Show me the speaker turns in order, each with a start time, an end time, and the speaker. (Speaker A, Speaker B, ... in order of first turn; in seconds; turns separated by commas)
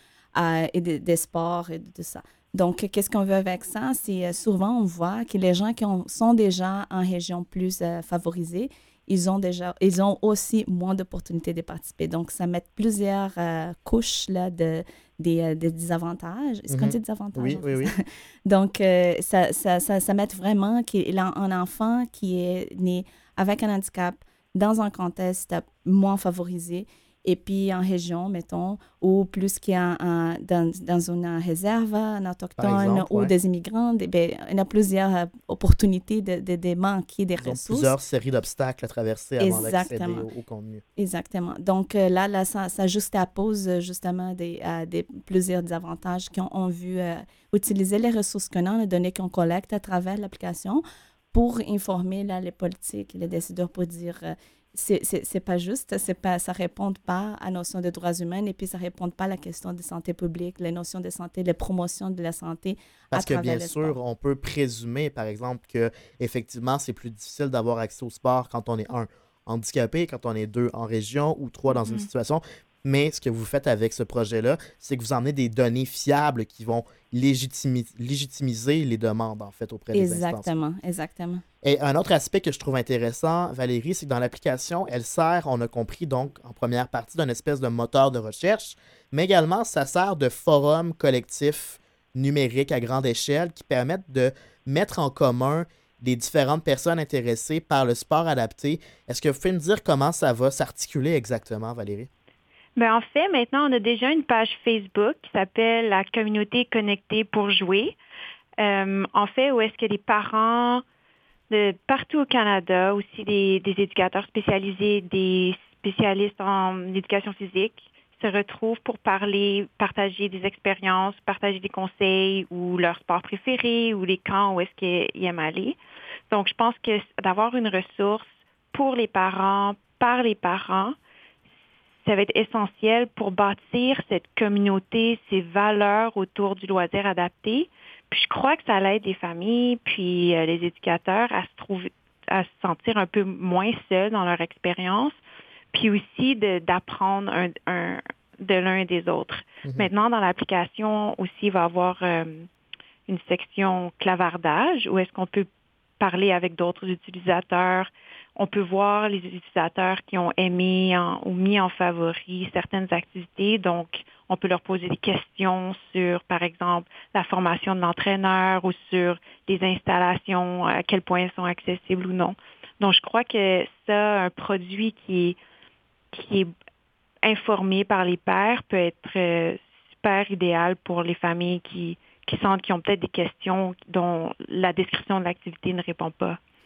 Speaker A: 0.3-38.0, Speaker B: 16.7-17.9, Speaker B: 32.6-33.3, Speaker B: 37.4-40.8, Speaker A: 39.4-40.3, Speaker A: 41.0-64.0, Speaker B: 63.1-80.5, Speaker C: 71.7-72.1, Speaker A: 79.9-81.4, Speaker B: 81.6-102.1, Speaker C: 102.8-108.0, Speaker C: 108.6-110.8, Speaker C: 111.5-125.8, Speaker C: 126.3-130.9, Speaker C: 132.0-145.2, Speaker C: 145.7-152.5, Speaker C: 153.1-155.5, Speaker C: 156.0-175.4, Speaker C: 176.1-176.5, Speaker C: 177.2-186.4